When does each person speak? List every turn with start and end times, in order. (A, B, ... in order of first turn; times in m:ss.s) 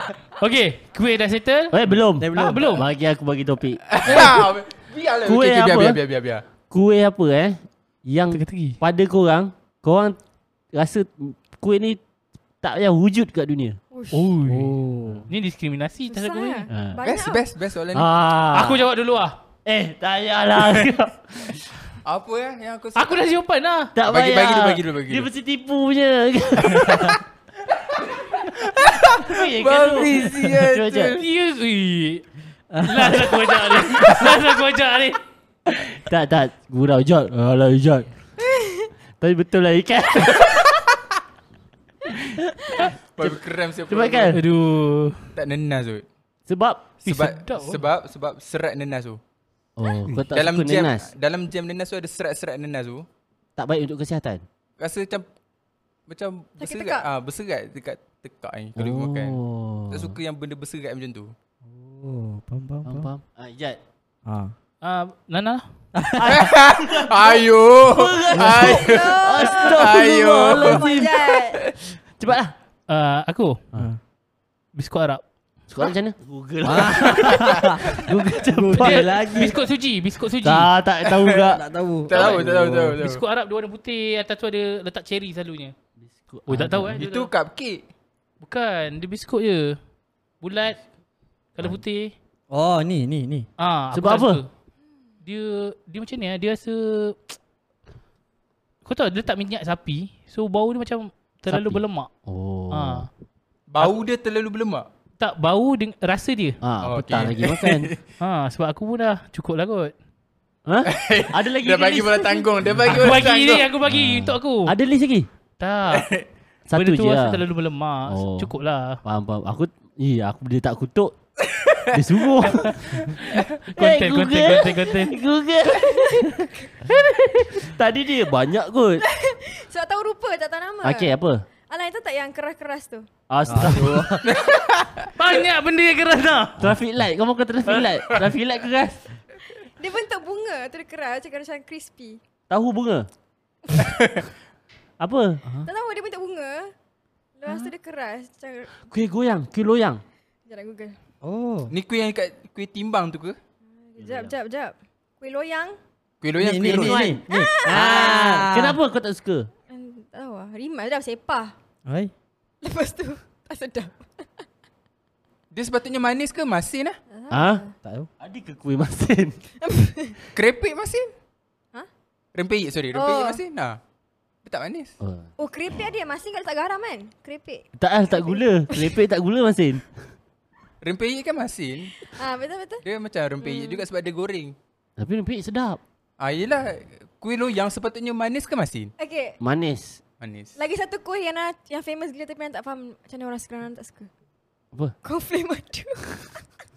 0:00.4-0:01.8 A
0:01.7-0:04.5 B
0:02.2-0:02.8 C
0:02.3-0:02.9 A
0:03.9-0:06.4 D
0:05.2-0:06.0 B
0:06.7-0:10.2 B
0:08.3-0:08.8 A
0:10.7-0:12.0 B
0:12.6-0:13.8 B
0:13.9-0:14.3 E
0:14.1-0:14.8 A
0:14.4-0:15.3 C
0:15.3-0:16.7 A
0:16.1-0:17.5 E
0:16.7-0:17.0 B
0:17.0-0:18.1 D
0:17.9-0:18.9 B
0:18.5-0:19.4 A
0:19.6-0:21.6 B
0:22.0-0:23.2 D
0:23.0-0:23.9 A
0:24.0-0:27.2 B
0:24.0-0:25.3 D
0:26.8-0:27.2 C
0:28.4-0:31.2 D
0:29.1-0:31.2 B
0:31.1-0:32.2 A
0:32.7-0:34.3 C
0:32.8-0:35.2 A
0:36.0-0:38.1 B
0:38.5-0:38.9 E
0:39.2-0:40.6 B
0:42.3-0:44.4 B
0:43.2-0:44.4 D
0:44.3-0:45.3 A
0:45.4-0:46.1 D
0:46.5-0:46.9 B
0:47.0-0:49.2 D
0:47.0-0:47.8 A
0:49.8-0:51.1 B
0:50.3-0:53.1 D
0:53.6-0:54.4 B
0:54.8-0:55.3 D
0:56.1-0:59.4 D
0:56.6-0:57.1 E
0:58.8-1:00.2 B
0:59.9-1:01.3 D
1:01.6-1:03.1 C
1:02.9-1:03.8 B
1:04.2-1:04.6 C
1:04.8-1:05.6 A
1:06.0-1:06.6 C
1:06.2-1:11.1 B
1:06.3-1:10.8 D
1:08.5-1:08.7 C
1:08.6-1:09.9 E
1:10.5-1:11.6 E
1:12.2-1:12.5 B
1:12.9-1:13.6 A
1:13.8-1:14.0 C
1:14.8-1:15.2 A
1:15.7-1:19.5 B
1:16.6-1:19.6 C
1:17.3-1:17.7 D
1:18.8-1:20.7 A
1:20.4-1:21.6 B
1:21.0-1:21.5 D
1:21.4-1:23.0 C
1:22.1-1:23.2 D
1:22.1-1:25.8 A
1:26.0-1:27.0 B
1:26.5-1:27.3 A
1:26.9-1:27.9 D
1:28.4-1:29.8 A
1:30.4-1:30.8 A
1:31.6-1:32.1 A
1:32.5-1:33.5 C
1:33.6-1:34.5 A
1:33.9-1:34.4 B
1:35.2-1:37.4 A
1:38.8-1:42.1 A
1:41.5-1:43.1 B
1:42.7-1:43.1 A
1:43.7-1:44.9 D
1:45.2-1:46.6 A
1:46.6-1:47.9 B
1:46.8-1:48.0 D
1:48.2-1:49.9 A
1:50.7-1:53.0 B
1:50.8-1:53.7 D
1:52.9-1:54.7 A
1:53.9-1:55.3 B
1:55.6-1:56.1 A
1:55.9-1:56.2 D
1:56.7-1:57.4 B
1:56.7-1:59.0 A
1:58.1-1:58.5 B
1:59.0-2:01.1 B
2:01.4-2:03.1 D
2:01.9-2:03.2 B
2:02.6-2:05.2 A
2:03.8-2:09.0 B
2:05.7-2:06.7 E
2:09.0-2:11.2 E
2:10.8-2:11.4 B
2:11.7-2:13.1 E
2:13.3-2:14.1 B
2:13.5-2:14.3 C
2:13.8-2:15.1 D
2:15.2-2:16.7 A
2:16.6-2:19.0 B
2:19.8-2:22.2 E
2:22.5-2:23.1 B
2:23.8-2:24.2 D
2:25.0-2:25.4 B
2:25.4-2:25.7 C
2:25.6-2:26.7 E
2:27.4-2:28.7 E
2:28.9-2:30.0 B
2:30.5-2:31.0 E
2:31.2-2:31.8 C
2:31.7-2:33.4 D
2:33.7-2:35.8 E
2:34.0-2:34.3 B
2:36.2-2:37.1 D
2:36.4-2:38.8 C
2:36.6-2:39.5 B
2:37.3-2:38.3 E
2:39.7-2:41.6 E
2:41.9-2:42.1 C
2:42.6-2:44.4 E
2:45.5-2:47.0 D
2:47.1-2:47.7 E
2:47.3-2:47.6 B
2:47.8-2:48.1 C
2:48.2-2:49.4 B
2:49.6-2:50.2 E
2:50.3-2:51.1 D
2:52.4-2:53.8 D
2:52.9-2:53.4 E
2:54.4-2:55.0 D
2:55.0-2:55.3 B
2:55.4-2:59.0 E
2:57.8-3:00.0 B
3:00.8-3:01.9 D
3:02.0-3:02.8 E
3:02.8-3:04.6 D
3:03.4-3:03.8 E
3:05.0-3:05.8 B
3:06.2-3:08.9 D
3:09.0-3:09.4 E
3:09.4-3:10.0 B
3:10.2-3:10.6 D
3:10.6-3:14.1 E
3:15.0-3:16.3 E